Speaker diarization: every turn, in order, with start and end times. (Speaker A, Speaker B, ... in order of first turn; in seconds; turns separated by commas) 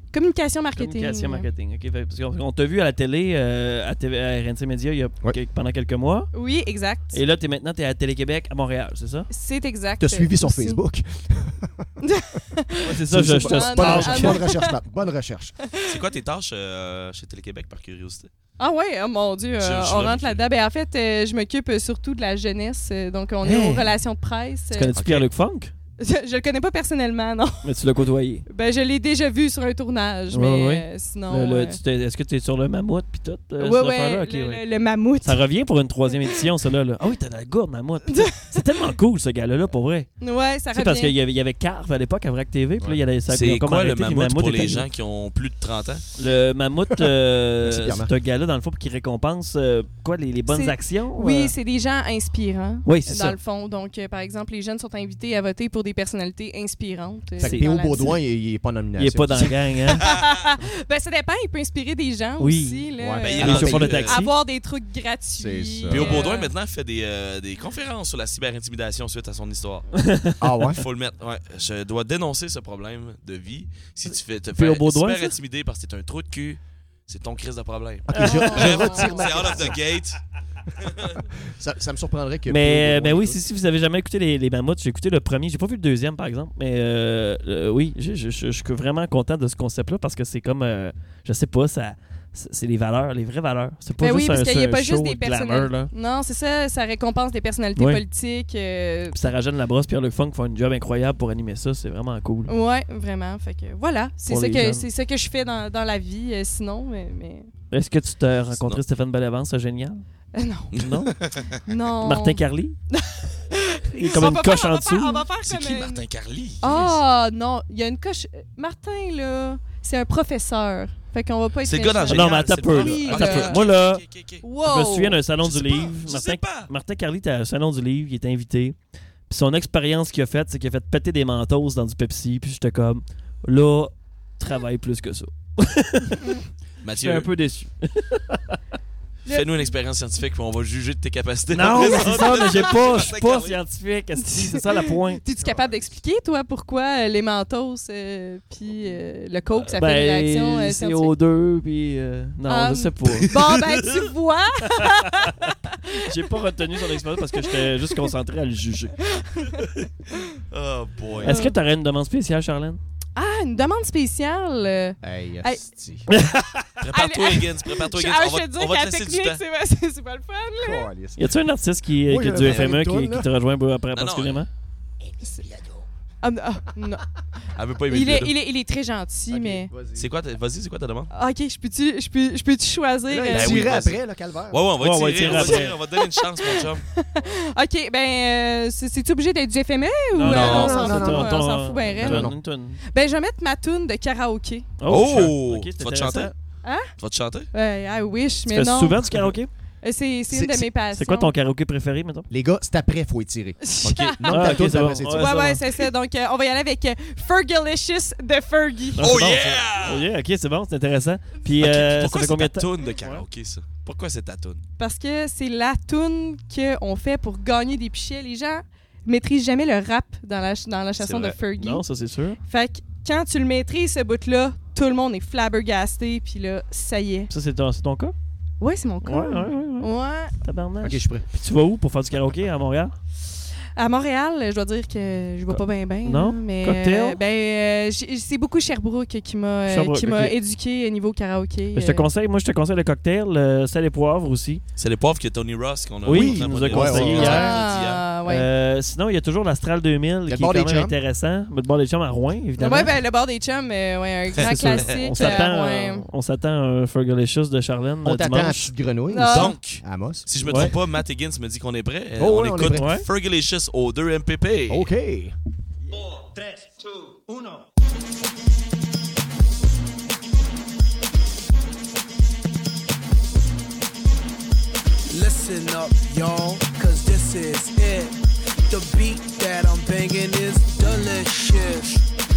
Speaker A: 0.1-1.5, Speaker B: 0.8-6.3, Speaker A: 6.3-7.2, Speaker B: 7.1-9.3, Speaker A: 9.3-10.8, Speaker C: 10.0-11.9, Speaker A: 12.0-14.8, Speaker B: 12.8-14.4, Speaker C: 13.1-15.5, Speaker A: 15.6-16.0, Speaker D: 15.8-18.3, Speaker A: 18.6-25.0, Speaker D: 19.6-20.5, Speaker B: 23.4-23.9, Speaker B: 24.7-25.7, Speaker D: 25.0-25.3, Speaker A: 26.0-27.7, Speaker B: 27.6-28.4, Speaker A: 28.5-31.8, Speaker B: 30.3-34.6, Speaker A: 33.6-35.4, Speaker B: 35.2-40.1, Speaker A: 38.1-38.4, Speaker A: 40.2-41.1, Speaker B: 40.7-44.9, Speaker D: 43.3-46.0, Speaker B: 46.2-51.5, Speaker C: 47.6-48.1, Speaker A: 50.5-58.2, Speaker B: 52.9-53.4, Speaker C: 57.4-59.6, Speaker B: 57.4-58.2, Speaker B: 59.0-60.0, Speaker A: 60.0-66.5, Speaker B: 62.4-64.3, Speaker C: 63.0-64.0, Speaker D: 63.3-64.2, Speaker C: 65.4-66.2, Speaker D: 65.9-69.9, Speaker B: 70.0-70.3, Speaker C: 70.4-70.8, Speaker D: 70.7-80.2, Speaker B: 74.6-75.3, Speaker C: 78.1-79.8, Speaker B: 78.2-78.7, Speaker A: 78.3-79.3, Speaker C: 81.6-83.4, Speaker B: 82.5-95.9, Speaker A: 94.0-99.2, Speaker B: 97.8-98.0, Speaker B: 99.1-102.5, Speaker A: 102.5-107.5, Speaker B: 104.3-104.8, Speaker B: 107.7-110.0, Speaker D: 108.5-108.8, Speaker A: 110.3-110.8, Speaker B: 110.8-111.1, Speaker D: 110.8-111.6, Speaker A: 111.7-116.0, Speaker B: 112.0-112.8, Speaker B: 113.9-115.3, Speaker D: 115.4-117.0, Speaker A: 116.6-123.6, Speaker D: 121.6-124.5, Speaker B: 122.1-124.0, Speaker A: 124.4-125.2, Speaker B: 124.7-128.8, Speaker D: 125.4-126.7, Speaker B: 129.3-136.3, Speaker D: 136.8-137.3, Speaker B: 137.0-138.6, Speaker A: 139.3-139.7, Speaker D: 139.3-143.6, Speaker B: 141.5-145.2, Speaker A: 144.2-151.1, Speaker C: 145.4-145.8, Speaker B: 149.6-153.3, Speaker A: 152.5-156.1, Speaker B: 154.8-155.5, Speaker B: 156.1-158.9, Speaker A: 159.1-159.7, Speaker D: 160.5-161.3, Speaker B: 161.2-162.8, Speaker A: 161.2-161.6, Speaker A: 163.2-165.7, Speaker C: 165.0-166.1, Speaker B: 166.1-166.7, Speaker D: 166.8-169.4, Speaker A: 166.9-170.9, Speaker C: 170.6-171.2, Speaker B: 171.2-174.5, Speaker C: 172.1-173.3, Speaker D: 172.4-172.7, Speaker D: 173.9-174.4, Speaker C: 175.4-175.7, Speaker A: 176.2-177.0, Speaker D: 177.6-178.3, Speaker A: 177.9-179.7, Speaker C: 179.3-180.1, Speaker D: 179.9-181.1, Speaker A: 181.1-183.7, Speaker C: 183.1-184.6, Speaker D: 183.3-186.8, Speaker B: 184.8-185.8, Speaker A: 186.0-192.3, Speaker B: 190.1-192.8, Speaker D: 190.3-190.8, Speaker C: 190.3-191.3, Speaker C: 192.0-192.4, Speaker A: 192.9-194.7, Speaker B: 194.8-196.3, Speaker D: 194.9-196.3, Speaker D: 197.0-197.5, Speaker A: 197.5-201.3, Speaker B: 198.5-199.5, Speaker C: 200.3-200.7, Speaker B: 200.9-202.3, Speaker C: 202.3-205.3, Speaker A: 203.6-209.1, Speaker B: 203.9-205.6, Speaker B: 209.0-213.2, Speaker D: 209.0-210.1, Speaker D: 211.6-214.6, Speaker A: 214.8-221.8, Speaker B: 221.1-222.4, Speaker A: 222.4-227.3, Speaker B: 227.3-228.2, Speaker A: 228.6-230.3, Speaker B: 229.0-229.9, Speaker B: 230.4-232.9, Speaker C: 230.8-231.2, Speaker A: 233.8-242.1, Speaker B: 235.5-237.2, Speaker B: 239.7-240.3, Speaker B: 241.7-244.6, Speaker D: 244.8-248.1, Speaker B: 246.1-247.6, Speaker C: 246.1-247.5, Speaker A: 247.2-248.5, Speaker B: 248.3-252.9, Speaker C: 250.3-250.9, Speaker A: 252.6-256.1, Speaker B: 254.4-258.7, Speaker D: 254.4-255.0, Speaker C: 258.0-260.7, Speaker A: 259.1-259.5, Speaker D: 259.3-264.9, Speaker B: 260.5-260.8, Speaker C: 262.2-262.9, Speaker B: 262.7-263.1, Speaker C: 264.7-265.3, Speaker E: 275.1-278.2, Speaker E: 278.7-282.0